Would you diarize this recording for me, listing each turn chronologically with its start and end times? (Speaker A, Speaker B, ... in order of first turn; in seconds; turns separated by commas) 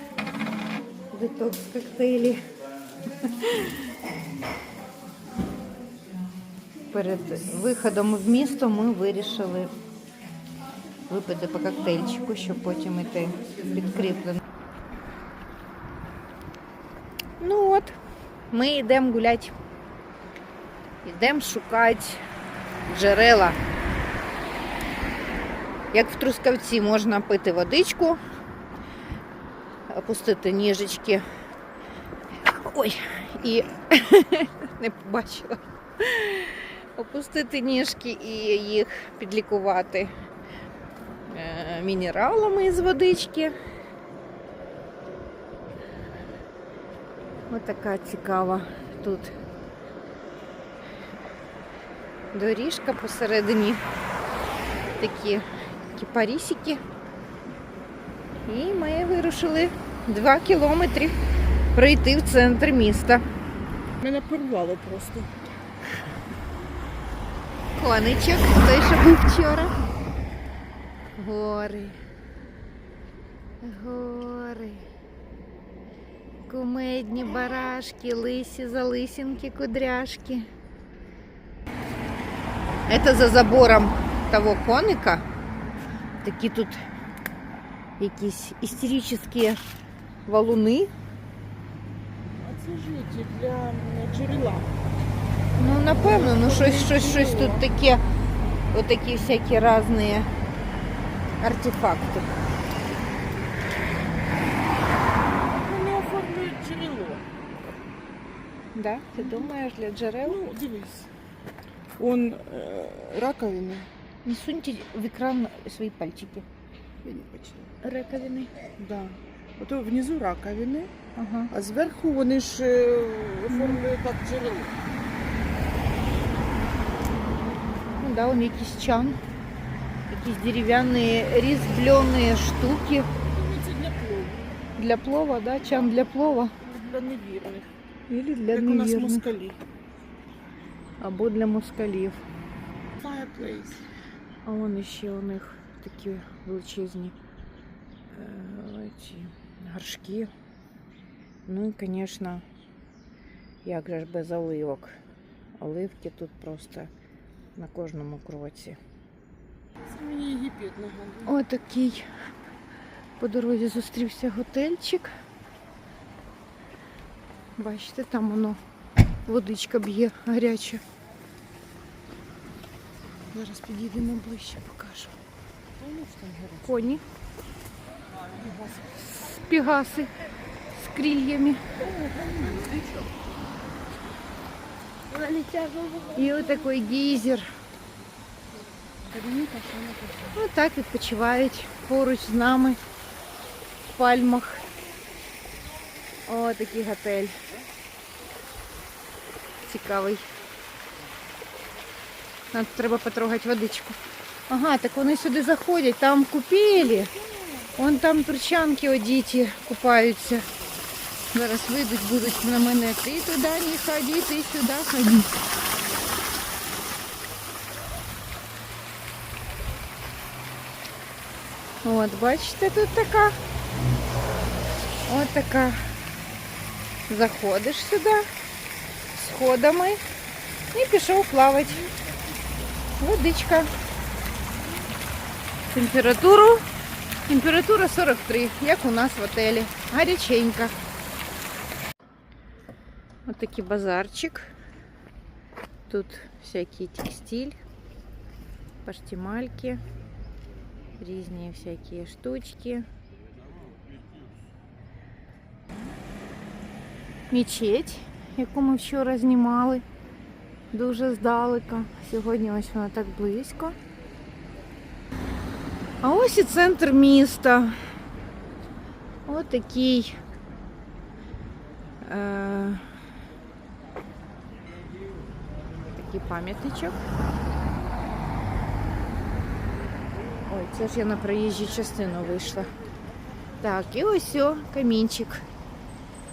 Speaker A: 1.1-2.4, Speaker A: 3.2-3.9, Speaker A: 6.9-9.7, Speaker A: 11.1-14.4, Speaker A: 17.4-18.0, Speaker A: 18.5-19.5, Speaker A: 21.0-22.2, Speaker A: 22.9-23.6, Speaker A: 25.9-28.2, Speaker A: 29.9-31.2, Speaker A: 32.4-40.1, Speaker A: 41.3-43.6, Speaker A: 47.5-49.4, Speaker A: 52.3-53.8, Speaker A: 55.0-56.8, Speaker A: 58.5-61.2, Speaker A: 61.7-63.2, Speaker B: 64.0-65.3, Speaker A: 67.8-69.7, Speaker A: 71.2-72.0, Speaker A: 73.6-74.9, Speaker A: 76.5-80.5, Speaker A: 82.9-85.2, Speaker A: 86.2-86.8, Speaker A: 88.0-89.6, Speaker A: 90.3-90.9, Speaker B: 92.4-94.7, Speaker A: 95.6-98.0, Speaker B: 95.9-97.7, Speaker A: 98.7-100.3, Speaker A: 101.4-102.3, Speaker B: 105.3-107.2, Speaker A: 108.8-110.4, Speaker B: 109.2-109.5, Speaker B: 110.2-111.1, Speaker B: 112.0-113.9, Speaker A: 114.2-116.5, Speaker B: 117.0-117.7, Speaker A: 117.8-118.6, Speaker B: 118.8-120.9, Speaker A: 121.2-121.5, Speaker B: 121.5-124.8, Speaker A: 123.5-123.8, Speaker A: 128.0-129.2, Speaker A: 130.1-133.1, Speaker B: 133.2-134.6, Speaker A: 134.8-136.5, Speaker B: 136.6-137.7, Speaker A: 138.1-139.3, Speaker B: 138.5-139.6, Speaker A: 141.0-142.2, Speaker B: 143.0-143.8, Speaker A: 144.4-147.2, Speaker A: 148.1-150.3, Speaker A: 151.5-152.4, Speaker A: 153.6-155.0, Speaker A: 155.6-156.9, Speaker A: 157.6-158.8, Speaker B: 159.8-161.3, Speaker A: 161.2-162.1, Speaker A: 163.2-165.1, Speaker A: 167.6-168.6, Speaker A: 169.3-170.8, Speaker A: 173.3-175.2, Speaker B: 175.8-176.7, Speaker A: 176.7-177.0, Speaker B: 178.2-179.1, Speaker A: 179.2-180.1, Speaker A: 180.7-181.6, Speaker B: 181.8-183.1, Speaker B: 185.1-186.7, Speaker A: 186.2-187.5, Speaker B: 189.1-190.4, Speaker A: 190.3-192.8, Speaker A: 193.9-194.7, Speaker A: 196.3-197.3, Speaker A: 199.6-200.3, Speaker A: 202.5-204.0, Speaker A: 204.5-207.2, Speaker B: 207.2-207.7, Speaker A: 207.8-210.5, Speaker A: 211.3-215.3, Speaker A: 221.8-223.4, Speaker A: 225.1-225.8, Speaker A: 227.1-228.3, Speaker A: 229.1-230.0, Speaker A: 230.7-231.9, Speaker A: 233.0-233.7, Speaker A: 235.7-236.7, Speaker A: 237.3-240.8, Speaker A: 243.3-244.5, Speaker A: 245.9-247.6, Speaker A: 248.8-249.8, Speaker A: 251.0-252.9, Speaker A: 257.3-259.8, Speaker A: 260.7-263.8, Speaker A: 266.0-267.8, Speaker A: 269.3-270.2, Speaker A: 272.0-272.9, Speaker A: 275.9-277.0, Speaker A: 280.5-282.7, Speaker A: 283.6-285.4